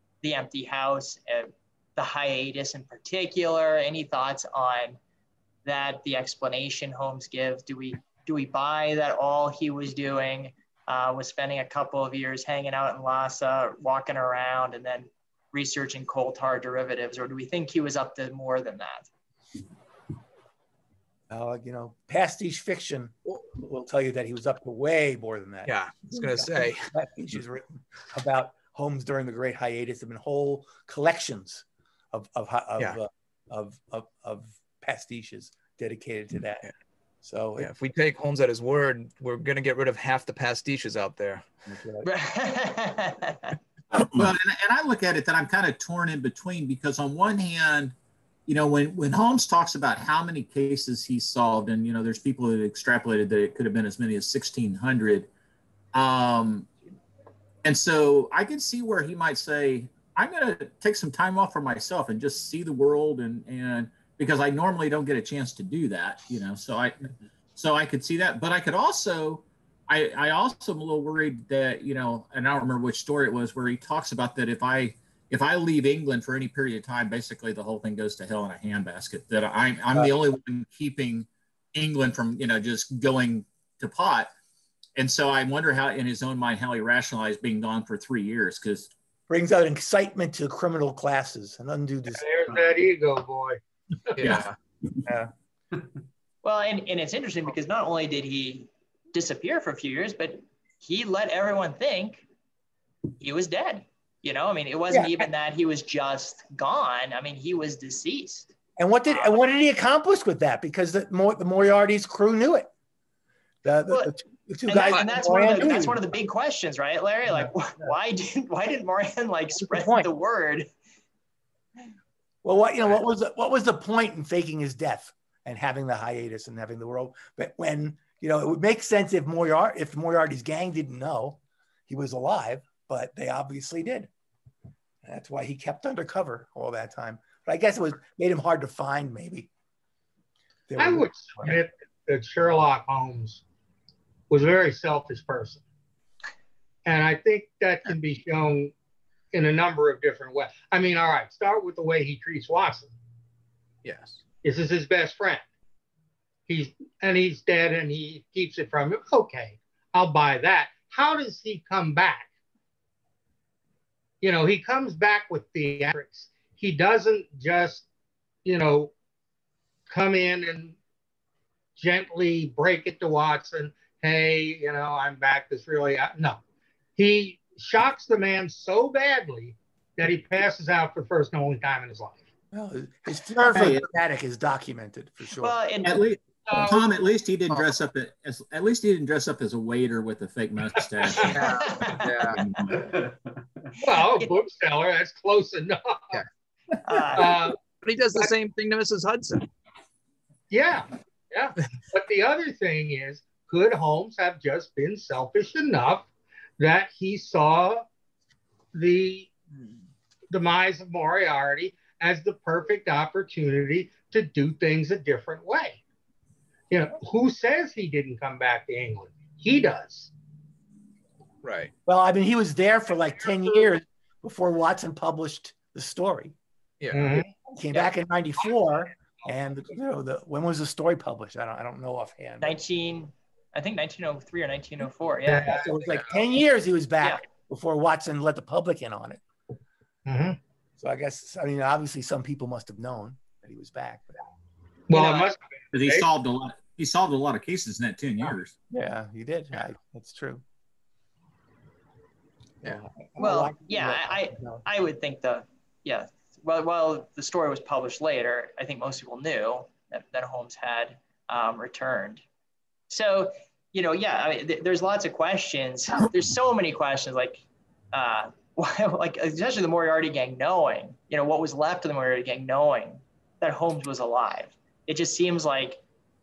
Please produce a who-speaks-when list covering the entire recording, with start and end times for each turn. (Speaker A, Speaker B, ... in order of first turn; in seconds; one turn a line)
Speaker A: 0.2-5.0
Speaker A: 5.7-19.1
Speaker B: 21.3-36.7
Speaker C: 25.7-26.9
Speaker B: 37.2-37.7
Speaker C: 37.6-41.5
Speaker B: 41.7-42.1
Speaker A: 42.0-43.6
Speaker D: 44.1-48.0
Speaker D: 48.5-55.3
Speaker D: 55.9-56.7
Speaker D: 57.6-84.3
Speaker D: 85.0-88.9
Speaker B: 89.3-92.3
Speaker E: 92.2-93.6
Speaker C: 94.2-94.6
Speaker D: 94.2-94.5
Speaker A: 96.4-102.3
Speaker A: 103.2-108.5
Speaker B: 104.9-105.2
Speaker B: 108.8-112.7
Speaker A: 109.1-109.4
Speaker B: 113.6-116.0
Speaker A: 113.9-114.2
Speaker A: 114.7-120.7
Speaker B: 119.6-120.1
Speaker B: 122.4-134.1
Speaker B: 135.0-139.5
Speaker B: 140.7-141.6
Speaker E: 140.8-143.4
Speaker E: 144.3-145.6
Speaker E: 146.8-148.7
Speaker E: 149.3-152.9
Speaker C: 153.8-154.2
Speaker E: 154.4-155.4
Speaker E: 156.5-162.3
Speaker E: 164.2-167.9
Speaker E: 168.4-168.9
Speaker E: 169.9-170.8
Speaker E: 171.8-176.4
Speaker E: 177.0-182.2
Speaker B: 182.5-185.6
Speaker D: 183.5-183.9
Speaker A: 185.4-186.0
Speaker D: 185.8-191.5
Speaker E: 186.5-186.8
Speaker C: 187.5-187.8
Speaker C: 191.2-192.4
Speaker A: 191.2-192.2
Speaker D: 192.2-192.8
Speaker E: 193.8-196.2
Speaker A: 193.9-194.3
Speaker A: 196.8-197.4
Speaker E: 197.2-197.6
Speaker C: 197.8-199.5
Speaker E: 200.5-207.9
Speaker E: 208.7-209.3
Speaker E: 210.3-215.8
Speaker E: 216.7-220.1
Speaker C: 221.4-221.7
Speaker B: 221.9-226.3
Speaker C: 226.8-227.2
Speaker E: 226.9-227.3
Speaker B: 227.5-232.6
Speaker A: 232.4-235.7
Speaker E: 235.3-236.0
Speaker B: 235.5-239.2
Speaker E: 240.1-240.4
Speaker B: 240.8-244.3
Speaker E: 244.9-246.1
Speaker A: 244.9-245.3
Speaker D: 245.7-248.5
Speaker B: 248.7-250.4
Speaker B: 252.6-254.6
Speaker A: 253.2-262.2
Speaker A: 262.9-275.8